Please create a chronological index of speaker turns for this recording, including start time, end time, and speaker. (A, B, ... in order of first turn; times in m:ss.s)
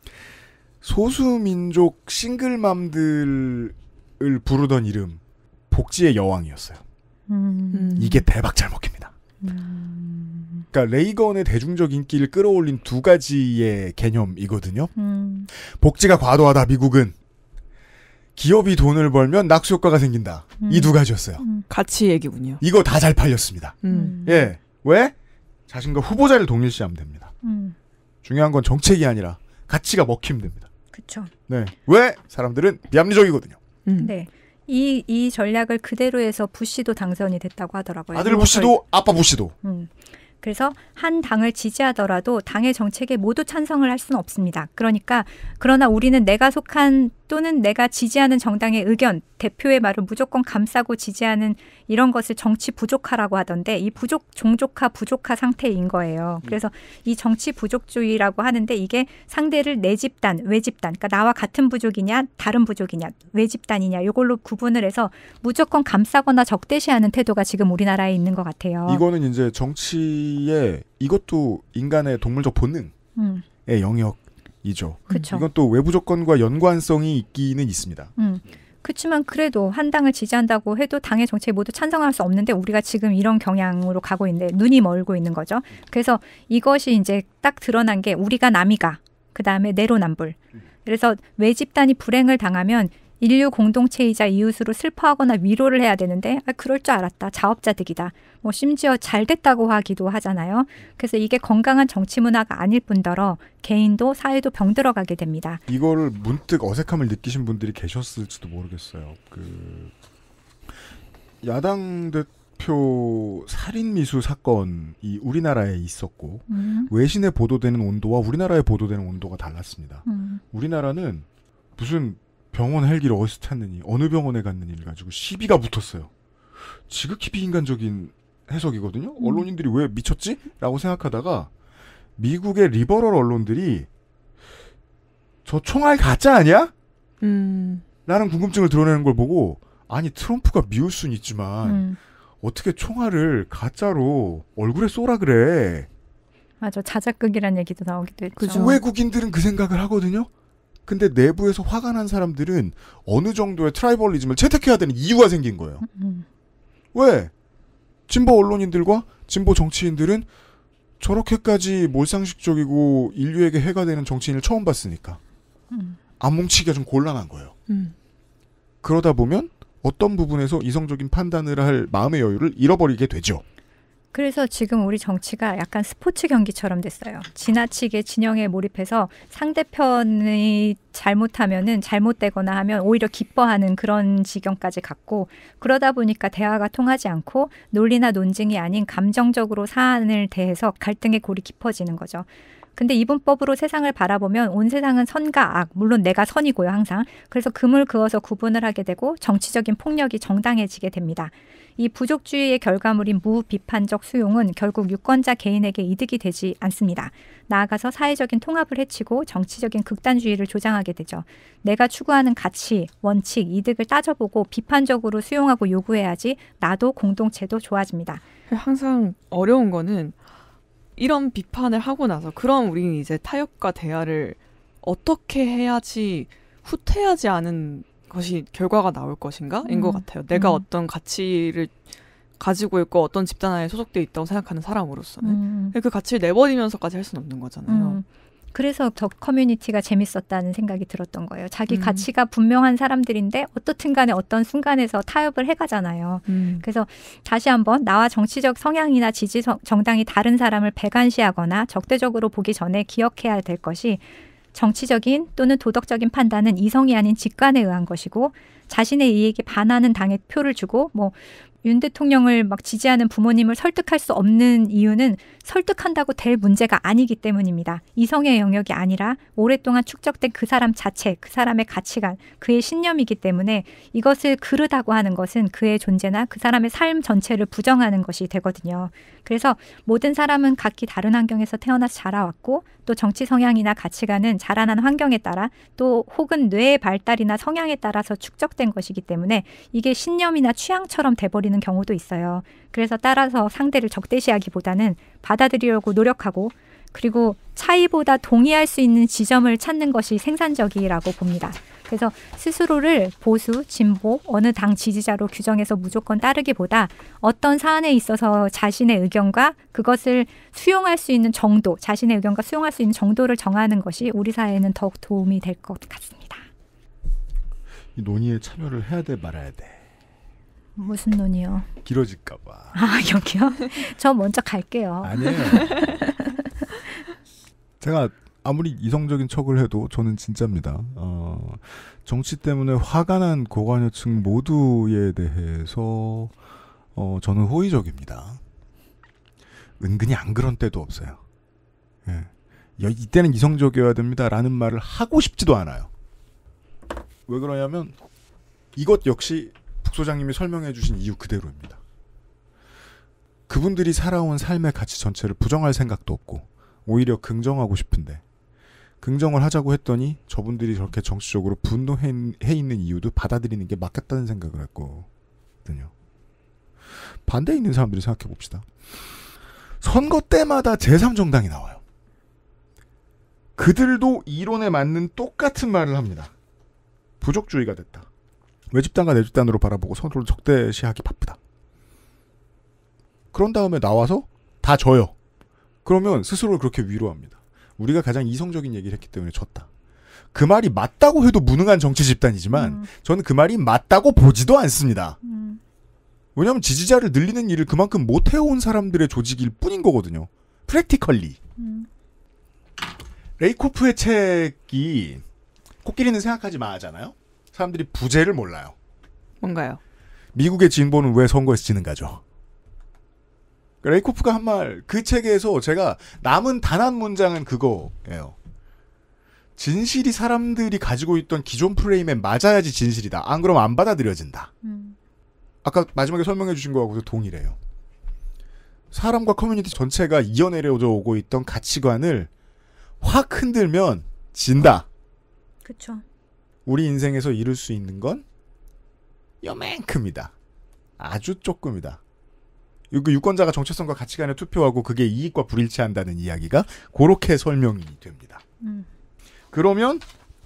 0:00.8-0:06.8 A
0:07.3-0:08.2 B
0:07.7-0:08.2 C
0:08.0-0:09.1 A
0:09.4-0:10.6 B
0:10.7-0:14.9 A
0:15.0-0:15.5 B
0:15.6-0:17.1 A
0:18.4-0:21.4 A
0:20.6-0:21.6 B
0:21.7-0:22.6 C
0:22.6-0:25.1 A
0:23.8-0:24.2 C
0:23.9-0:24.5 B
0:25.7-0:27.3 A
0:27.4-0:27.8 B
0:28.2-0:30.7 A
0:30.9-0:31.3 B
0:31.5-0:33.6 A
0:33.8-0:34.1 C
0:34.0-0:38.8 B
0:38.1-0:39.5 A
0:39.6-1:09.0 B
1:08.9-1:12.9 A
1:13.2-1:13.4 B
1:13.6-1:18.1 A
1:15.1-1:15.4 B
1:18.2-1:45.6 B
1:45.7-1:49.9 A
1:51.4-2:01.2 A
1:56.5-1:56.9 B
2:00.0-2:00.4 B
2:01.8-2:06.1 A
2:06.9-2:11.5 A
2:12.2-2:13.9 A
2:15.4-2:16.7 A
2:17.2-2:17.8 C
2:18.1-2:21.8 A
2:21.6-2:22.0 B
2:22.4-2:25.9 A
2:26.6-2:28.7 B
2:28.4-2:28.8 C
2:28.5-2:30.3 A
2:30.9-2:35.8 A
2:35.8-2:36.2 B
2:36.9-2:37.3 A
2:38.1-2:40.3 A
2:41.0-2:45.2 A
2:45.7-2:46.0 B
2:46.2-2:47.5 A
2:47.7-2:47.9 C
2:48.8-2:53.4 A
2:54.1-3:38.2 B
3:38.5-3:40.2 C
3:41.0-3:51.7 C
3:49.6-3:50.6 B
3:52.4-3:58.0 C
3:55.2-3:55.8 B
3:57.7-5:16.4 B
4:01.7-4:02.0 C
4:06.3-4:06.6 C
5:18.0-5:19.8 A
5:20.8-5:21.7 B
5:21.8-5:22.8 A
5:22.7-5:26.0 B
5:25.0-5:25.8 A
5:27.8-5:36.3 A
5:36.9-5:38.4 A
5:39.8-5:41.2 A
5:42.0-5:45.9 A
5:47.3-5:48.0 A
5:48.7-5:51.8 A
5:53.5-5:58.2 A
5:59.0-6:05.1 A
6:05.6-6:05.9 A
6:07.2-6:09.0 A
6:09.8-6:11.8 A
6:13.6-6:16.3 A
6:17.2-6:18.1 A
6:18.7-6:21.4 A
6:23.3-6:25.1 A
6:25.8-6:29.7 A
6:30.3-6:35.2 A
6:32.5-6:32.9 B
6:35.2-6:35.6 B
6:36.4-6:41.4 A
6:41.6-6:41.9 B
6:43.4-6:45.2 A
6:45.8-6:48.7 A
6:49.4-6:49.8 C
6:50.3-6:52.2 A
6:53.8-6:58.3 A
6:59.6-7:04.5 A
7:04.6-7:05.0 B
7:05.6-7:07.6 A
7:08.9-7:12.3 A
7:13.0-7:14.9 A
7:15.6-7:16.0 B
7:16.6-7:18.2 A
7:19.4-7:20.3 A
7:21.0-7:22.0 A
7:22.9-7:28.4 A
7:28.6-7:28.9 B
7:29.5-7:30.0 A